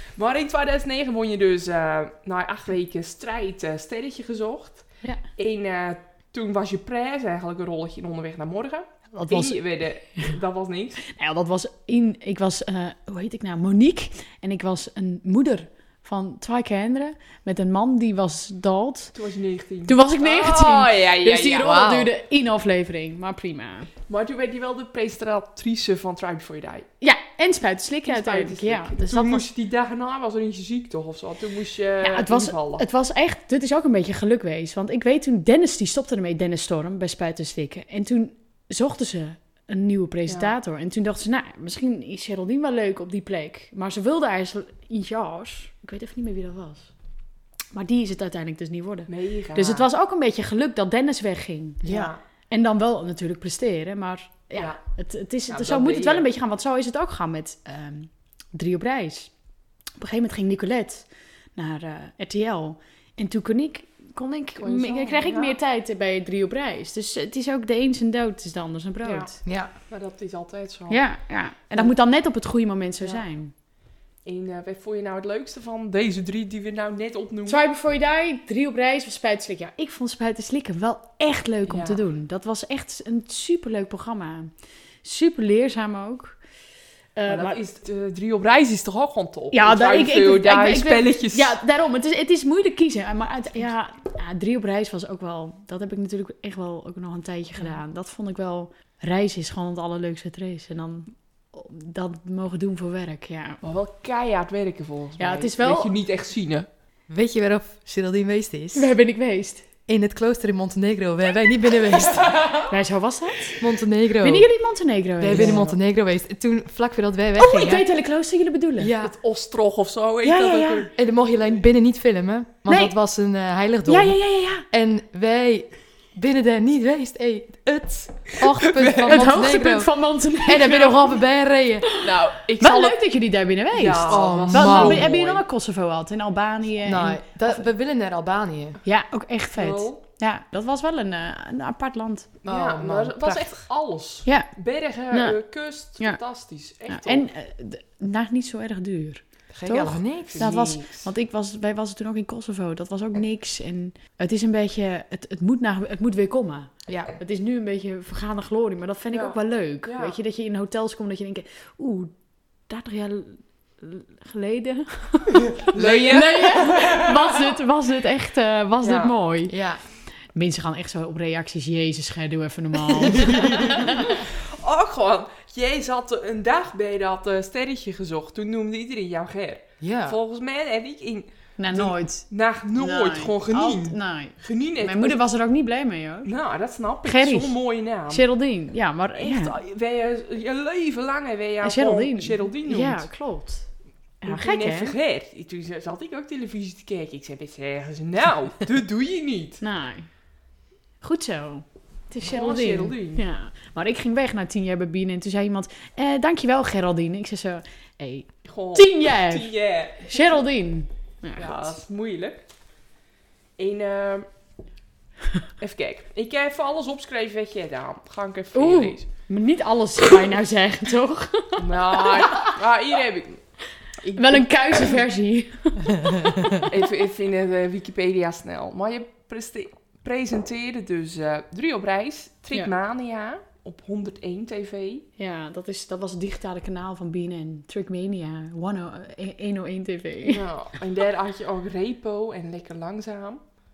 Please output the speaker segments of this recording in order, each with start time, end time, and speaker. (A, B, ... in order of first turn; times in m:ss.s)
0:00.2-0:11.0 A
0:09.1-0:09.6 B
0:11.1-0:19.1 B
0:19.1-0:21.8 A
0:19.9-0:23.9 B
0:21.6-0:22.1 C
0:24.1-0:26.9 A
0:27.0-0:29.4 B
0:28.0-0:32.8 A
0:32.0-0:46.9 B
0:47.7-0:59.3 B
0:49.1-0:49.8 A
0:51.8-0:52.2 A
0:55.5-0:56.2 A
1:00.0-1:09.3 B
1:04.6-1:05.6 A
1:09.0-1:11.0 A
1:09.4-1:09.7 C
1:10.9-1:13.5 B
1:14.2-1:17.6 A
1:17.5-1:26.4 B
1:21.7-1:22.0 A
1:27.2-1:27.6 B
1:27.3-1:31.6 A
1:29.5-1:43.6 B
1:43.6-1:46.7 A
1:45.2-1:45.9 B
1:47.1-1:48.9 C
1:48.7-1:49.7 B
1:49.9-1:52.3 C
1:52.3-1:52.6 A
1:52.7-1:53.6 B
1:53.6-1:54.5 C
1:54.2-1:55.6 B
1:55.2-1:57.9 C
1:55.3-1:55.7 A
1:57.4-1:58.9 B
1:58.8-1:59.1 C
1:59.0-2:00.9 A
2:00.2-2:00.9 B
2:00.9-2:04.2 C
2:02.6-2:03.0 B
2:03.9-2:04.6 B
2:04.7-2:09.9 C
2:08.6-2:09.1 A
2:09.0-2:11.1 B
2:10.4-2:11.9 C
2:12.0-2:13.0 A
2:12.6-2:17.6 B
2:13.7-2:15.4 A
2:14.0-2:15.1 C
2:16.8-2:18.8 C
2:18.8-2:22.4 B
2:19.6-2:20.0 A
2:22.4-2:27.2 A
2:22.4-2:23.4 C
2:24.2-2:24.5 B
2:25.1-2:25.4 B
2:26.9-2:42.1 B
2:29.5-2:30.6 C
2:30.3-2:31.1 A
2:36.9-2:37.1 C
2:39.1-2:40.1 A
2:42.7-2:49.6 B
2:45.6-2:47.5 A
2:48.8-2:49.1 A
2:49.5-2:49.8 C
2:50.3-2:54.2 B
2:53.1-2:53.7 C
2:53.7-3:05.2 A
2:59.8-3:00.2 C
3:01.6-3:06.3 B
3:06.2-3:08.2 A
3:07.0-3:07.6 B
3:08.1-3:09.6 B
3:09.2-3:13.1 A
3:11.6-3:13.7 B
3:14.2-3:14.9 B
3:14.2-3:19.6 A
3:19.6-3:20.1 B
3:21.0-3:31.7 B
3:22.2-3:23.2 A
3:28.4-3:30.4 A
3:31.4-3:32.4 A
3:33.6-3:34.3 A
3:35.6-3:39.1 A
3:38.5-3:42.5 B
3:41.6-3:43.4 A
3:44.0-3:45.0 A
3:44.1-3:46.7 B
3:46.6-3:55.1 A
3:55.2-4:00.4 B
4:00.3-4:03.4 A